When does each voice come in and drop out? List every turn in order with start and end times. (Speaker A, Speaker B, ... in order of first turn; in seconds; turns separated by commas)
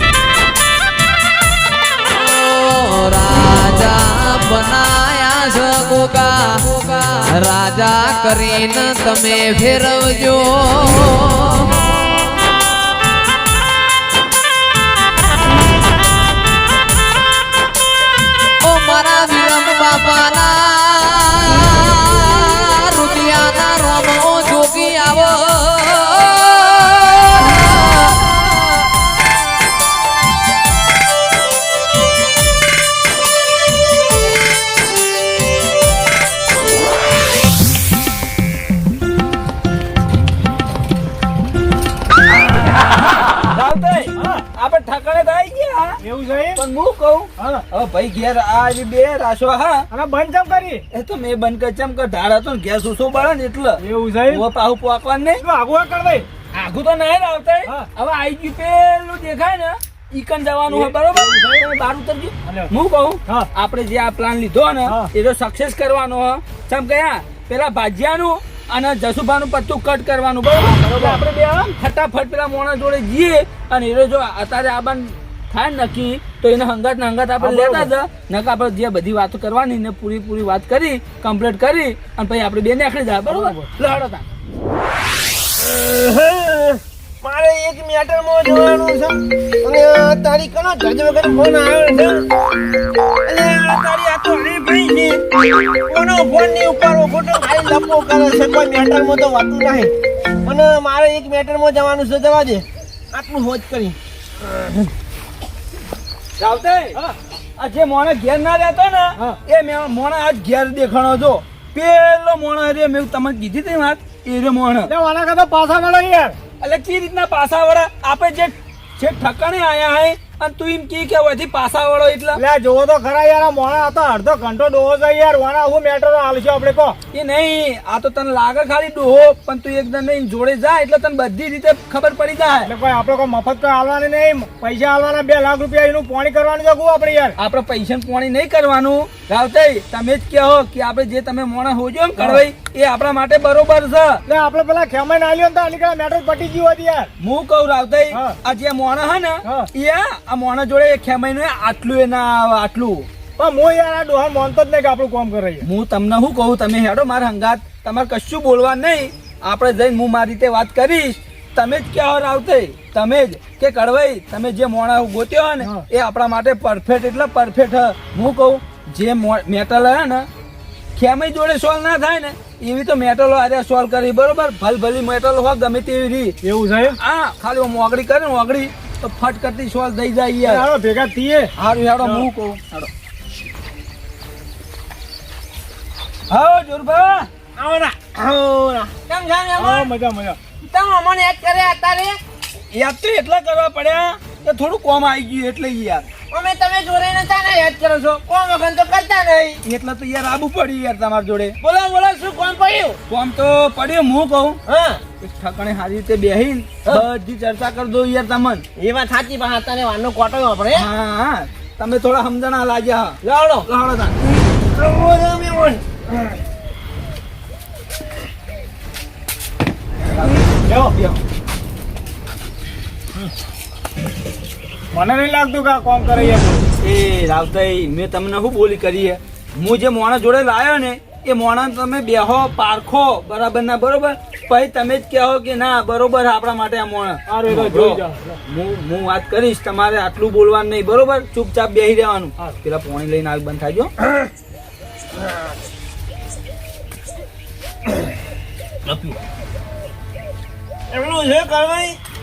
Speaker A: 2.4-11.7, Speaker A: 18.6-28.1, Speaker B: 43.5-46.0, Speaker C: 44.2-44.4, Speaker C: 46.0-46.6, Speaker B: 46.5-49.8, Speaker C: 47.4-47.6, Speaker C: 49.9-50.8, Speaker B: 50.9-55.4, Speaker C: 53.8-54.4, Speaker C: 55.4-56.2, Speaker B: 56.5-84.2, Speaker C: 60.7-61.7, Speaker C: 62.5-62.7, Speaker C: 64.8-65.1, Speaker C: 70.6-71.7, Speaker C: 77.4-77.9, Speaker C: 83.3-83.6, Speaker D: 85.6-92.2, Speaker D: 93.2-95.2, Speaker D: 95.9-99.9, Speaker D: 100.4-104.0, Speaker B: 106.4-107.0, Speaker B: 107.6-114.9, Speaker C: 114.8-116.4, Speaker B: 116.6-122.4, Speaker C: 122.3-127.0, Speaker B: 127.1-132.7, Speaker C: 132.7-137.3, Speaker B: 137.4-144.2, Speaker C: 142.2-142.4, Speaker C: 144.2-147.1, Speaker B: 147.2-153.1, Speaker C: 148.1-148.4, Speaker C: 149.4-149.7, Speaker C: 153.4-155.7, Speaker B: 155.6-170.3, Speaker C: 165.6-165.8, Speaker B: 170.9-176.4, Speaker C: 176.4-177.0, Speaker B: 177.0-180.7, Speaker C: 180.5-182.3, Speaker B: 181.6-182.9, Speaker B: 186.3-187.3, Speaker D: 187.6-189.9, Speaker C: 189.6-190.4, Speaker D: 190.7-192.2, Speaker B: 192.7-196.1, Speaker D: 196.3-199.6, Speaker B: 199.6-201.6, Speaker D: 201.6-203.0, Speaker B: 203.1-204.6, Speaker D: 204.7-205.0, Speaker B: 205.2-208.6, Speaker D: 208.8-210.8, Speaker B: 210.7-214.2, Speaker D: 213.2-213.7, Speaker D: 214.7-216.4, Speaker C: 220.7-221.1, Speaker C: 224.9-226.7, Speaker B: 226.8-243.9, Speaker C: 237.3-238.4, Speaker D: 248.8-249.2, Speaker D: 250.9-252.0